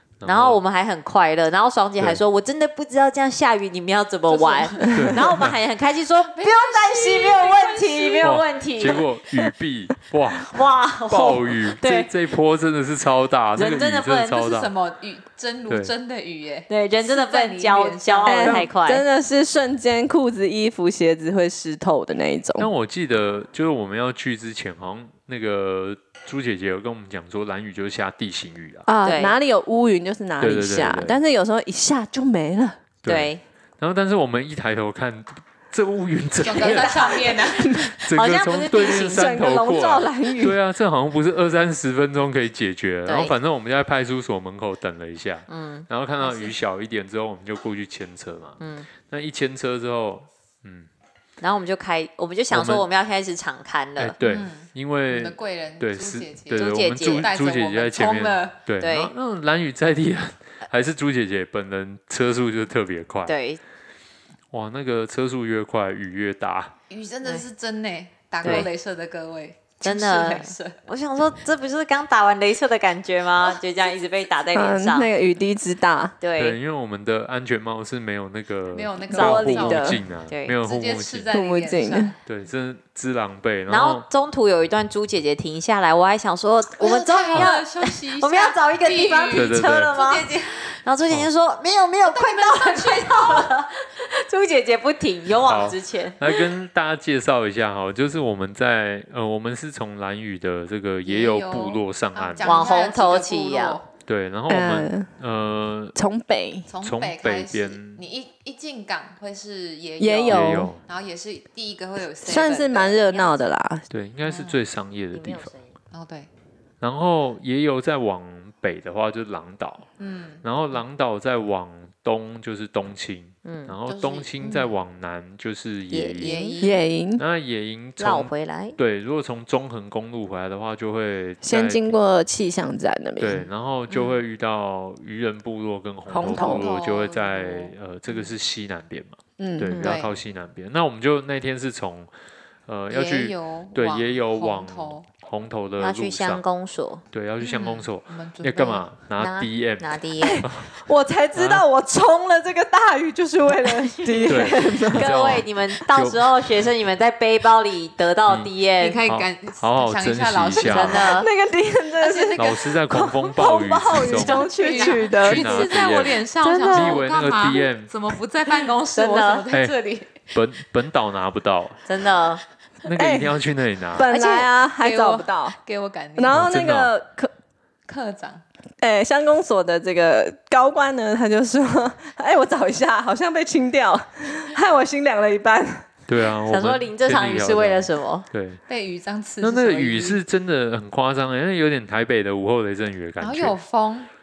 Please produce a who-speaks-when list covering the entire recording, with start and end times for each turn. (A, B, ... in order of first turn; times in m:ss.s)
0:00.2-0:00.6 A
0:00.2-0:09.0 B
0:04.3-0:05.2 C
0:04.9-0:05.6 A
0:06.3-0:08.4 C
0:08.2-0:14.7 A
0:10.5-0:12.1 B
0:13.5-0:14.4 B
0:14.3-0:18.7 C
0:15.7-0:15.9 A
0:16.7-0:19.0 B
0:18.2-0:22.7 D
0:22.6-0:28.8 A
0:28.8-0:32.8 D
0:29.0-0:29.3 B
0:30.4-0:31.2 A
0:33.0-0:50.9 A
0:33.0-0:33.4 B
0:36.4-0:38.0 C
0:37.6-0:37.9 D
0:38.1-0:39.4 B
0:38.9-0:40.6 D
0:43.0-0:43.3 B
0:45.5-0:45.8 B
0:46.2-0:46.5 C
0:48.6-0:48.9 B
0:51.4-0:54.2 B
0:52.5-0:52.9 A
0:54.0-1:03.4 A
0:54.2-0:58.6 C
0:56.5-0:57.3 B
0:58.8-0:59.1 B
1:03.2-1:03.6 B
1:04.5-1:06.7 A
1:06.9-1:10.8 C
1:08.4-1:08.7 B
1:09.8-1:15.1 B
1:14.5-1:16.2 D
1:16.2-1:16.6 B
1:16.4-1:21.3 A
1:18.7-1:20.0 C
1:19.1-1:20.0 D
1:20.3-1:20.6 B
1:20.6-1:22.2 C
1:21.3-1:22.1 D
1:22.2-1:24.1 A
1:23.7-1:36.4 B
1:26.8-1:30.8 C
1:29.3-1:30.0 A
1:32.0-1:33.5 C
1:35.4-1:42.6 A
1:41.0-1:43.9 C
1:42.4-1:43.8 B
1:44.0-1:46.0 A
1:44.5-1:45.1 D
1:45.9-1:46.7 D
1:46.7-1:53.5 C
1:46.8-1:48.0 A
1:50.0-1:50.7 D
1:50.3-1:50.8 A
1:52.2-1:53.8 D
1:53.9-1:55.5 A
1:54.2-1:54.6 C
1:55.1-1:55.7 B
1:55.9-1:56.3 C
1:56.8-1:59.9 A
2:00.0-2:00.4 C
2:00.4-2:06.4 A
2:03.4-2:03.7 B
2:03.9-2:04.8 C
2:05.9-2:06.7 B
2:06.2-2:06.8 C
2:06.6-2:07.2 D
2:07.2-2:12.0 A
2:08.0-2:08.8 B
2:11.4-2:13.5 D
2:13.2-2:22.1 A
2:13.9-2:14.2 C
2:16.1-2:16.7 D
2:16.2-2:18.3 C
2:19.4-2:19.8 D
2:19.7-2:20.0 B
2:19.8-2:20.1 C
2:22.7-2:26.4 A
2:22.9-2:25.0 C
2:25.8-2:27.0 B
2:27.1-2:30.8 A
2:27.4-2:28.9 C
2:29.2-2:30.4 B
2:30.2-2:35.1 D
2:31.3-2:31.7 A
2:33.8-2:39.0 B
2:34.3-2:36.3 A
2:38.3-2:38.5 A
2:38.8-2:41.2 C
2:39.0-2:41.2 A
2:40.6-2:41.3 B
2:41.1-2:45.8 D
2:42.0-2:42.6 C
2:42.4-2:44.5 A
2:44.0-2:50.3 C
2:44.5-2:45.1 B
2:45.1-2:47.9 A
2:46.4-2:47.0 B
2:48.9-2:49.5 B
2:49.5-2:51.8 A
2:51.8-2:52.4 B
2:52.8-2:54.1 A
2:52.9-2:53.4 D
2:53.9-2:55.6 D
2:54.1-2:56.4 C
2:56.2-2:57.3 D
2:56.3-2:56.9 A
2:57.8-2:58.4 C
2:58.8-3:05.9 D
3:06.1-3:08.6 A
3:06.5-3:08.3 B
3:08.7-3:10.2 C
3:09.4-3:13.6 A
3:13.2-3:14.1 C